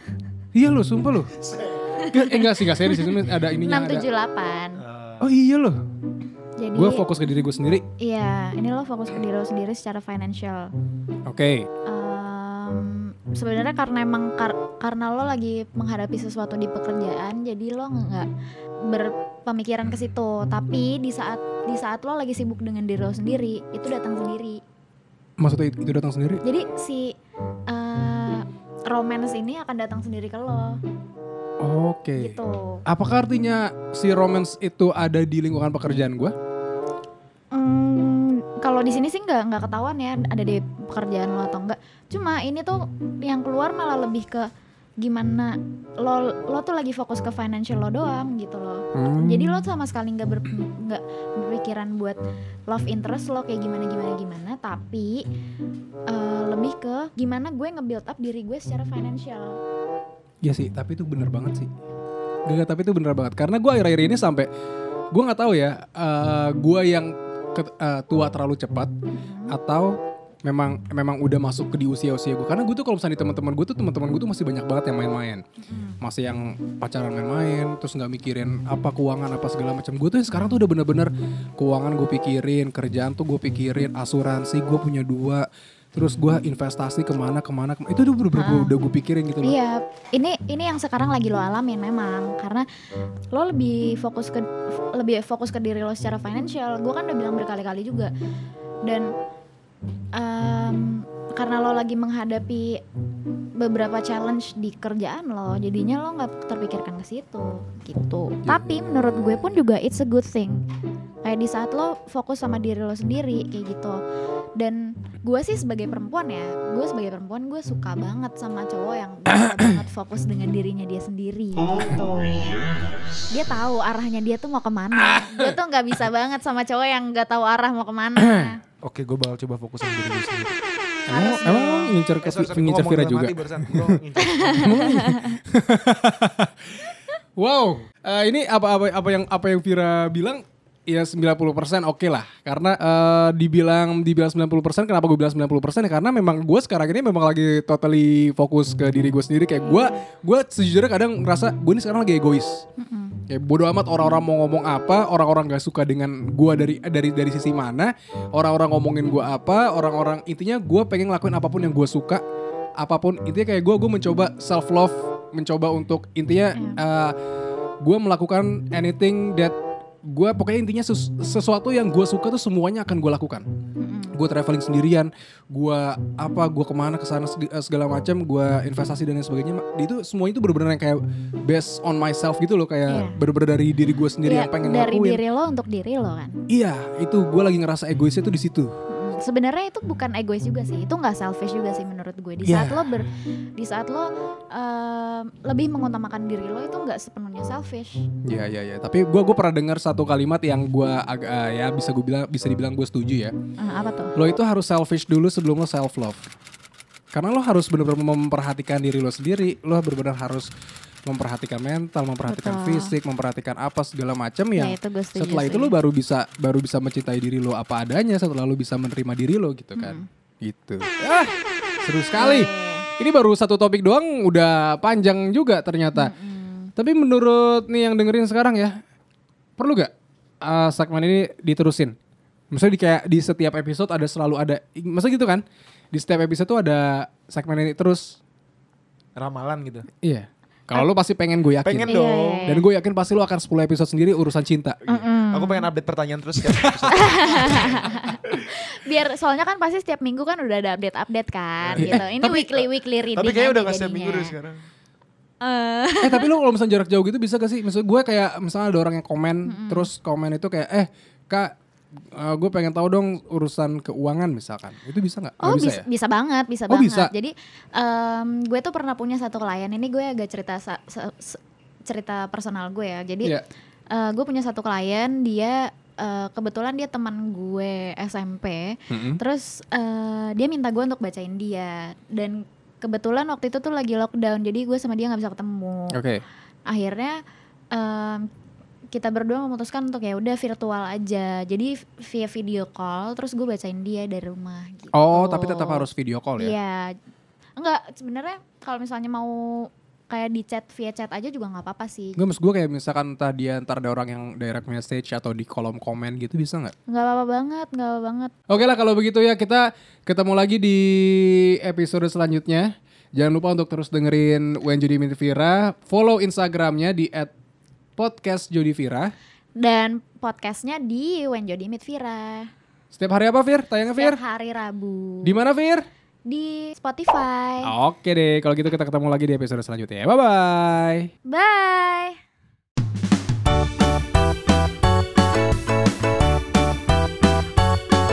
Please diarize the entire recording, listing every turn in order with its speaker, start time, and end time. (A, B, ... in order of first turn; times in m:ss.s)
0:00.5-0:01.4 A
0:01.4-0:01.9 B
0:01.9-0:04.8 C
0:02.1-0:04.1 A
0:04.8-0:05.3 B
0:05.2-0:05.8 A
0:06.6-0:07.1 C
0:06.8-0:07.9 A
0:08.0-0:10.7 C
0:11.3-0:11.7 A
0:11.9-0:18.3 C
0:18.8-0:24.6 C
0:25.4-0:26.4 A
0:26.4-0:27.1 C
0:27.7-0:30.8 C
0:31.6-0:32.4 A
0:32.2-0:32.8 C
0:32.9-0:36.4 A
0:37.5-0:44.5 C
0:45.0-0:55.2 C
0:49.0-0:49.7 A
0:56.1-0:59.6 C
1:00.4-1:01.7 A
1:02.5-1:04.5 A
1:05.1-1:08.9 A
1:09.1-1:09.6 C
1:09.5-1:15.4 A
1:15.6-1:16.0 C
1:16.0-1:29.6 A
1:28.3-1:28.8 C
1:29.4-1:32.7 C
1:33.3-1:38.1 C
1:40.2-1:42.8 C
1:43.6-1:50.6 C
1:48.5-1:49.5 A
1:51.2-1:54.0 C
1:54.6-2:02.6 C
1:59.4-1:59.7 A
2:03.3-2:08.6 C
2:05.0-2:05.6 A
2:08.2-2:08.6 A
2:08.8-2:10.6 B
2:11.1-2:12.0 C
2:11.1-2:14.0 A
2:12.2-2:14.8 B
2:14.3-2:15.4 C
2:14.6-2:32.6 A
2:29.7-2:30.0 C
2:32.8-2:33.2 C
2:33.3-2:42.2 A
2:42.8-2:47.2 A
2:46.6-2:46.8 C
2:47.8-2:49.6 A
2:50.1-2:53.5 A
2:53.8-2:54.2 C
2:54.1-3:05.2 A
3:02.9-3:03.2 C
3:04.2-3:06.3 C
3:06.5-3:08.7 A
3:08.9-3:18.0 C
3:12.4-3:12.9 A
3:18.3-3:23.3 A
3:23.6-3:24.1 C
3:24.2-3:26.2 A
3:27.1-3:30.5 A
3:31.1-3:46.1 A
3:32.3-3:33.0 C
3:34.6-3:35.7 C
3:39.8-3:40.1 C
3:42.2-3:42.9 C
3:45.9-3:46.7 C
3:46.8-3:48.8 A
3:49.6-3:49.9 A
3:50.4-3:52.0 A
3:52.5-3:58.2 A
3:59.2-3:59.9 B
4:00.0-4:04.8 A
4:01.6-4:02.5 B
4:01.8-4:02.6 C
4:04.8-4:08.5 B
4:04.9-4:05.7 C
4:06.6-4:06.9 A
4:06.9-4:14.3 C
4:11.6-4:12.1 B
4:11.8-4:12.5 A
4:13.2-4:14.6 B
4:15.4-4:16.3 C
4:16.0-4:21.5 A
4:19.5-4:19.9 C
4:22.1-4:25.8 A
4:25.4-4:33.3 C
4:26.7-4:27.1 A
4:33.9-4:46.0 C
4:38.9-4:39.2 A
4:45.9-4:46.2 A
4:46.7-4:47.2 C
4:47.7-4:48.3 C
4:48.9-4:55.9 C
4:54.9-4:56.6 A
4:56.4-4:57.0 C
4:57.6-5:02.2 C
5:02.2-5:06.7 A
5:06.9-5:08.3 C
5:08.5-5:17.3 A
5:18.0-5:19.1 A
5:19.6-5:22.5 C
5:22.9-5:24.2 A
5:24.0-5:25.4 C
5:25.2-5:25.8 A
5:26.3-5:27.7 C
5:27.6-5:31.1 A
5:31.3-5:32.2 C